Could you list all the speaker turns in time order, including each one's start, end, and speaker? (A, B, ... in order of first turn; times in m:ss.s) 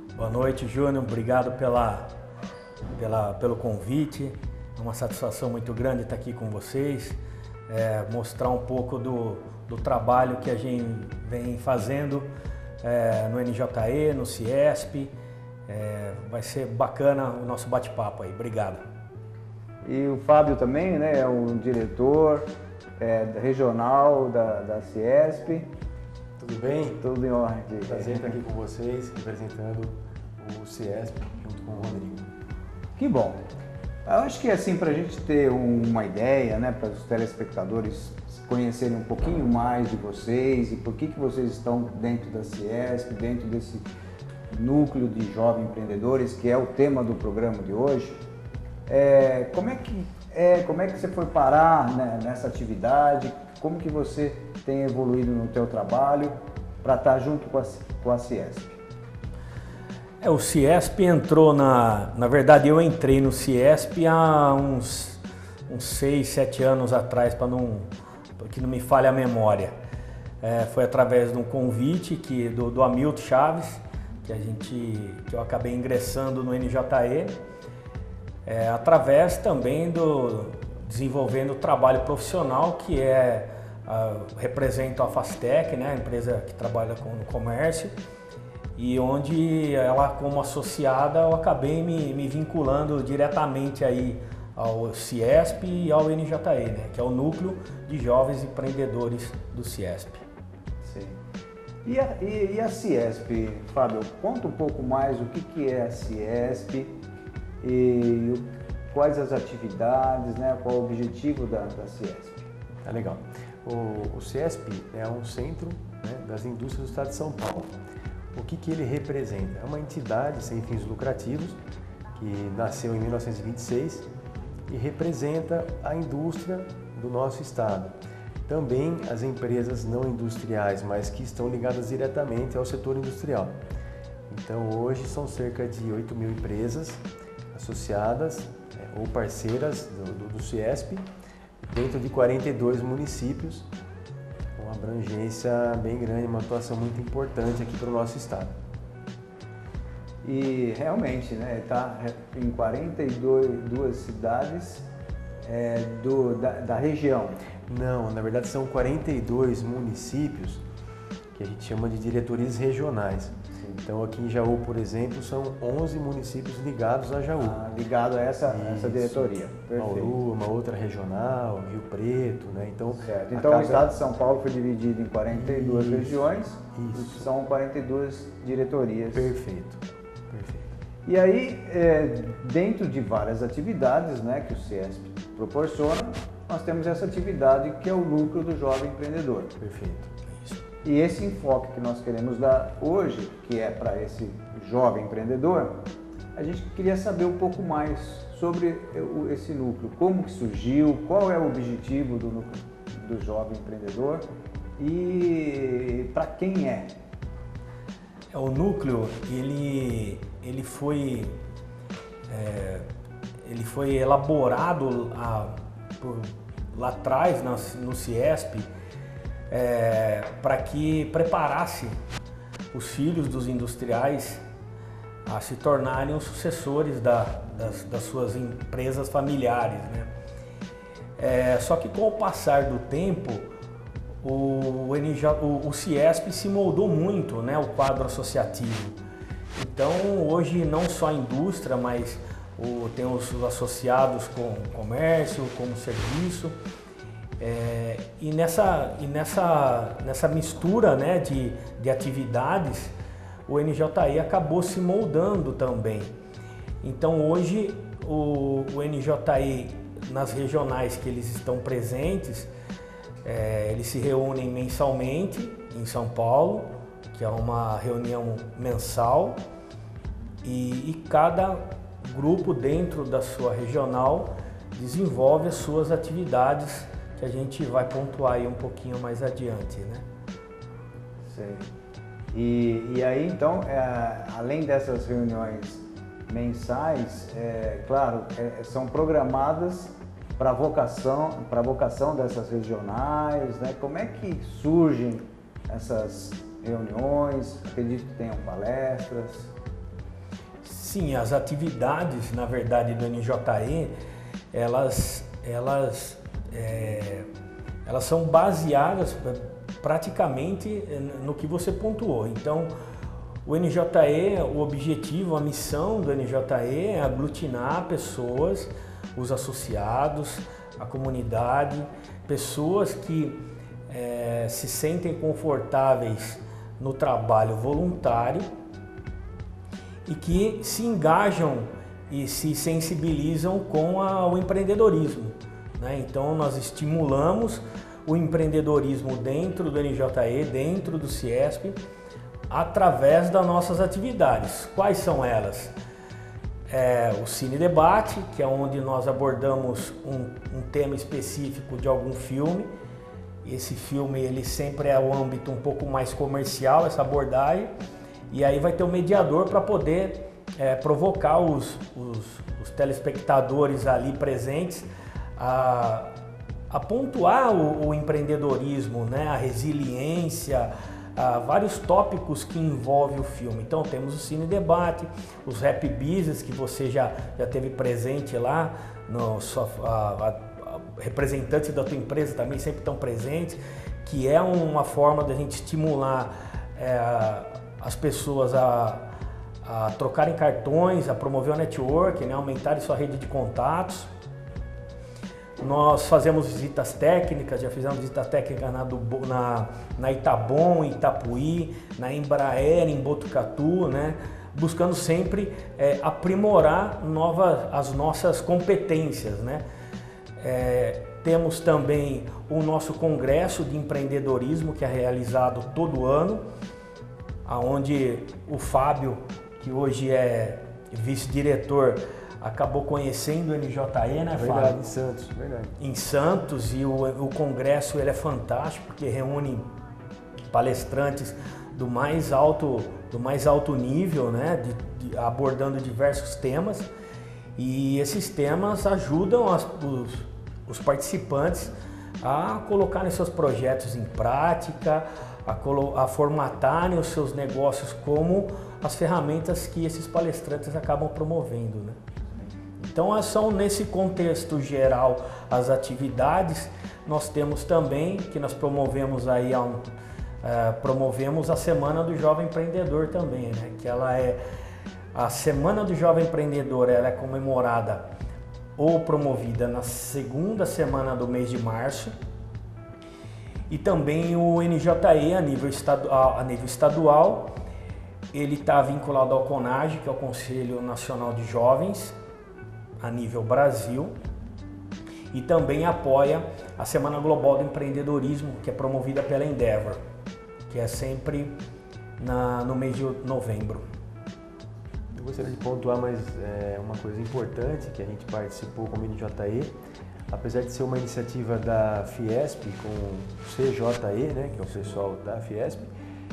0:00.1-0:02.1 A
0:03.0-0:07.2 A
0:07.7-0:12.3 A
0:12.8-0:15.1 A
0:15.7-0:18.8 A
0:19.8-0:22.4 B
0:23.0-0:25.7 B
0:26.4-0:27.0 C
0:27.0-0:28.4 B
0:27.8-0:32.3 C
0:33.0-0:33.4 B
0:34.0-0:43.8 B
0:44.5-0:48.2 B
0:48.8-0:58.8 B
1:00.2-1:07.9 A
1:08.4-1:09.7 A
1:10.4-1:17.3 A
1:18.4-1:27.9 A
1:28.8-1:40.2 A
1:40.8-1:41.2 B
1:41.8-1:46.9 B
1:47.6-1:52.5 B
1:52.8-1:57.7 C
1:58.3-2:01.6 C
2:02.2-2:04.1 C
2:04.7-2:13.6 C
2:14.3-2:21.0 C
2:21.7-2:23.7 C
2:24.6-2:28.5 C
2:30.2-2:34.8 B
2:35.4-2:37.4 B
2:37.7-2:40.6 C
2:41.3-2:47.6 C
2:43.6-2:43.8 B
2:47.4-2:50.2 B
2:48.4-2:53.8 C
2:53.0-2:59.3 B
2:55.3-2:56.2 C
2:56.7-2:57.2 C
2:59.1-3:00.8 C
3:01.0-3:09.5 B
3:09.6-3:10.1 C
3:10.8-3:15.7 B
3:16.3-3:24.2 B
3:24.8-3:26.9 B
3:28.3-3:31.3 A
3:32.3-3:32.8 A
3:33.4-3:38.7 A
3:39.5-3:41.9 A
3:42.7-3:44.4 A
3:45.3-3:50.1 A
3:51.2-3:53.5 A
3:54.2-3:59.0 A
3:59.6-4:06.6 A
4:07.4-4:12.9 A
4:13.5-4:16.1 A
4:16.8-4:22.5 A
4:23.2-4:29.4 A
4:30.4-4:40.0 A
4:41.2-4:41.6 B
4:42.3-4:59.5 B
5:00.6-5:03.9 A
5:04.5-5:07.2 A
5:07.8-5:12.7 A
5:13.4-5:28.4 A
5:30.1-5:41.8 A
5:42.5-5:45.7 A
5:46.7-5:52.7 A
5:53.4-5:57.7 A
5:58.3-6:06.1 A
6:06.7-6:29.1 A
6:29.6-6:34.1 A
6:35.6-6:49.6 A
6:50.4-6:56.4 A
6:57.4-7:05.0 A
7:04.3-7:05.7 C
7:05.8-7:09.7 A
7:10.5-7:16.9 A
7:17.6-7:32.0 A
7:32.8-7:39.8 A
7:40.4-7:44.4 A
7:45.1-7:48.1 A
7:48.8-7:52.1 A
7:53.7-7:57.5 A
7:58.3-8:02.2 A
8:03.0-8:04.1 A
8:05.3-8:10.0 A
8:10.7-8:11.6 A
8:12.2-8:13.8 A
8:15.1-8:19.7 C
8:20.3-8:25.9 C